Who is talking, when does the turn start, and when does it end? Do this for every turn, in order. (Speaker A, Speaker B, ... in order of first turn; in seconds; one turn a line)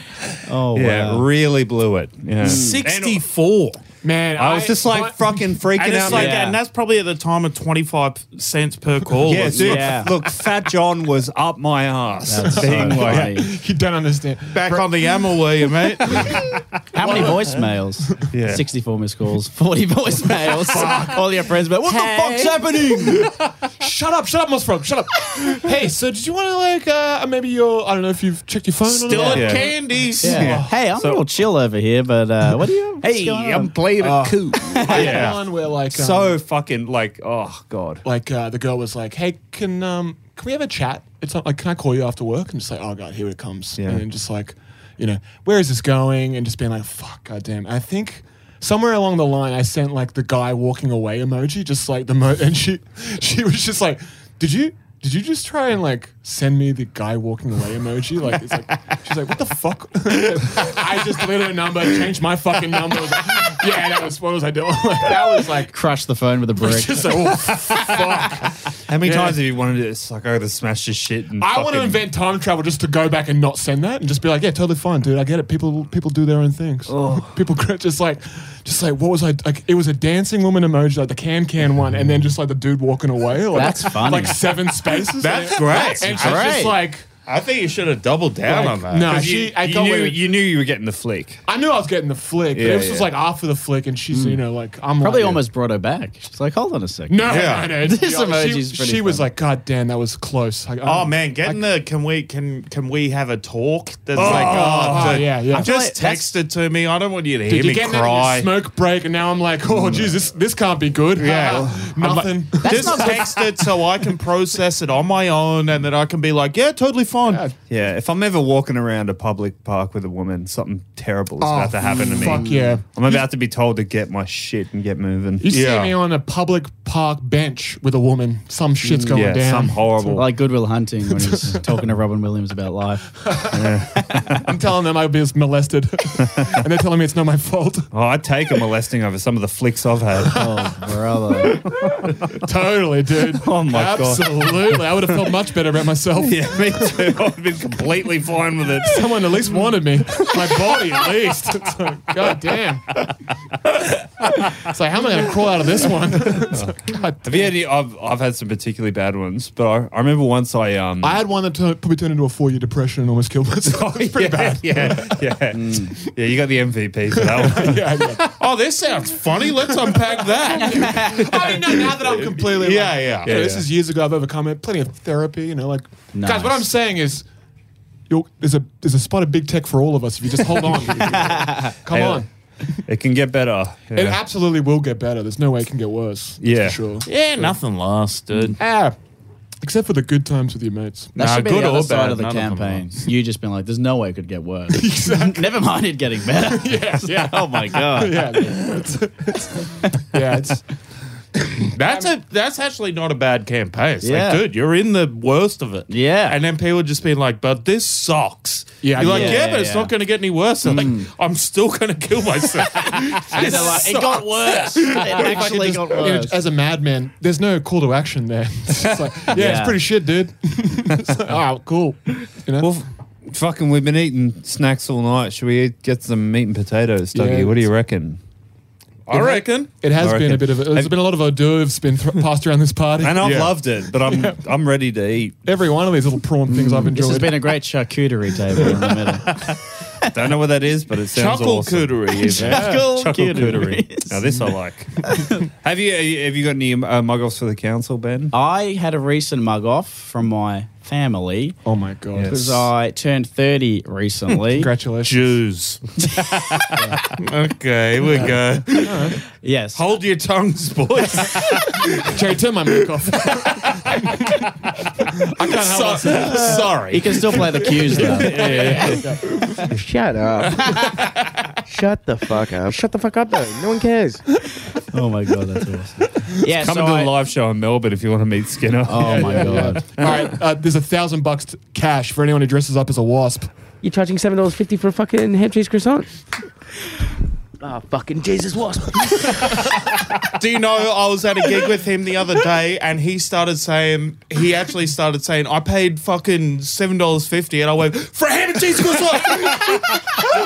Speaker A: 0.3-3.2
Speaker B: 0.4-1.2
Speaker C: 2.4-3.8
Speaker B: 2.4-2.8
Speaker D: 4.0-6.4
Speaker A: 4.4-6.4
Speaker C: 5.8-10.0
Speaker B: 6.1-6.6
Speaker A: 9.2-13.3
Speaker B: 9.5-10.1
Speaker B: 12.2-13.5
Speaker D: 12.6-15.4
Speaker C: 14.5-16.4
Speaker D: 16.0-17.5
Speaker B: 16.9-22.9
Speaker A: 18.3-18.6
Speaker D: 20.6-21.2
Speaker A: 22.0-22.5
Speaker D: 22.3-30.8
Speaker C: 28.9-30.4
Speaker A: 29.2-31.3
Speaker B: 30.2-33.7
Speaker A: 33.0-35.4
Speaker D: 34.0-36.4
Speaker B: 34.6-35.0
Speaker C: 34.9-35.4
Speaker A: 35.9-38.0
Speaker D: 38.0-65.7
Speaker A: 43.8-44.0
Speaker B: 65.7-67.1
Speaker D: 66.6-69.4
Speaker A: 67.2-72.0
Speaker D: 71.4-87.0
Speaker A: 76.9-77.3
Speaker B: 83.5-84.4
Speaker C: 85.2-86.6
Speaker B: 86.1-86.8
Speaker C: 87.2-89.7
Speaker D: 88.5-90.2
Speaker A: 89.1-91.4
Speaker D: 91.5-95.4
Speaker A: 92.5-93.1
Speaker B: 94.1-94.4
Speaker B: 95.0-99.2
Speaker D: 97.1-101.7
Speaker C: 97.3-97.7
Speaker C: 100.8-108.6
Speaker A: 104.1-105.3
Speaker D: 104.2-105.7
Speaker B: 105.5-106.3
Speaker D: 107.5-113.2
Speaker C: 111.2-111.7
Speaker A: 111.4-112.2
Speaker B: 112.5-113.3
Speaker C: 112.6-117.5
Speaker D: 117.2-117.5
Speaker A: 117.7-125.5
Speaker D: 121.4-123.2
Speaker B: 122.2-122.8
Speaker D: 125.4-130.3
Speaker C: 125.5-126.0
Speaker B: 128.8-129.1
Speaker A: 129.1-130.3
Speaker B: 130.2-133.1
Speaker D: 131.1-131.7
Speaker D: 133.2-133.7
Speaker A: 133.5-134.5
Speaker D: 134.3-137.9
Speaker A: 136.2-136.5
Speaker A: 137.9-140.5
Speaker D: 140.2-140.5
Speaker B: 140.3-141.6
Speaker D: 141.4-147.1
Speaker A: 141.7-142.4
Speaker A: 143.2-145.3
Speaker A: 146.1-150.9
Speaker D: 148.8-153.0
Speaker A: 154.2-154.7
Speaker D: 154.6-157.5
Speaker A: 156.3-161.2
Speaker D: 161.0-165.2
Speaker A: 163.8-168.2
Speaker B: 165.5-165.9
Speaker D: 167.1-168.2
Speaker C: 168.4-171.7
Speaker D: 169.7-177.2
Speaker B: 170.6-171.2
Speaker C: 172.3-173.3
Speaker A: 173.2-173.7
Speaker B: 176.1-176.6
Speaker D: 178.1-182.7
Speaker A: 180.9-182.2
Speaker B: 181.4-181.7
Speaker A: 182.8-184.2
Speaker D: 183.9-187.5
Speaker A: 186.4-186.8
Speaker C: 187.1-188.6
Speaker D: 188.6-189.0
Speaker D: 189.6-191.1
Speaker C: 191.2-193.0
Speaker B: 191.2-198.6
Speaker D: 194.7-195.6
Speaker D: 196.3-200.6
Speaker D: 201.3-202.1
Speaker C: 201.7-214.2
Speaker B: 204.0-204.4
Speaker B: 205.9-206.4
Speaker D: 208.8-209.4
Speaker B: 209.0-209.9
Speaker B: 210.6-211.1
Speaker D: 213.2-214.2
Speaker B: 213.3-216.3
Speaker D: 214.8-222.7
Speaker B: 219.3-219.8
Speaker A: 222.6-228.2
Speaker D: 227.1-227.6
Speaker C: 229.1-229.7
Speaker D: 229.1-234.4
Speaker A: 229.9-231.0
Speaker A: 233.0-235.4
Speaker C: 233.2-233.5
Speaker D: 235.4-237.6
Speaker B: 236.5-239.3
Speaker D: 238.6-238.9
Speaker A: 239.3-248.3
Speaker C: 241.1-242.7
Speaker B: 242.3-244.4
Speaker D: 242.4-242.8
Speaker B: 248.3-251.6
Speaker D: 251.6-252.6
Speaker A: 252.2-252.6
Speaker B: 252.3-254.7
Speaker D: 254.4-255.3
Speaker C: 255.0-255.8
Speaker B: 256.2-256.8
Speaker C: 257.1-259.1
Speaker D: 258.1-259.2
Speaker B: 259.4-259.8
Speaker C: 259.7-262.2
Speaker D: 262.0-269.6
Speaker C: 263.1-264.0
Speaker C: 265.5-267.4
Speaker B: 266.3-268.4
Speaker A: 268.0-269.1
Speaker C: 268.4-268.9
Speaker E: 269.7-271.0
Speaker B: 270.7-270.9
Speaker E: 271.6-274.2
Speaker B: 274.9-277.1
Speaker A: 276.5-280.3
Speaker B: 278.9-279.8
Speaker D: 279.0-283.5
Speaker E: 283.8-286.2
Speaker E: 287.6-289.9
Speaker C: 290.4-300.2
Speaker A: 299.6-299.9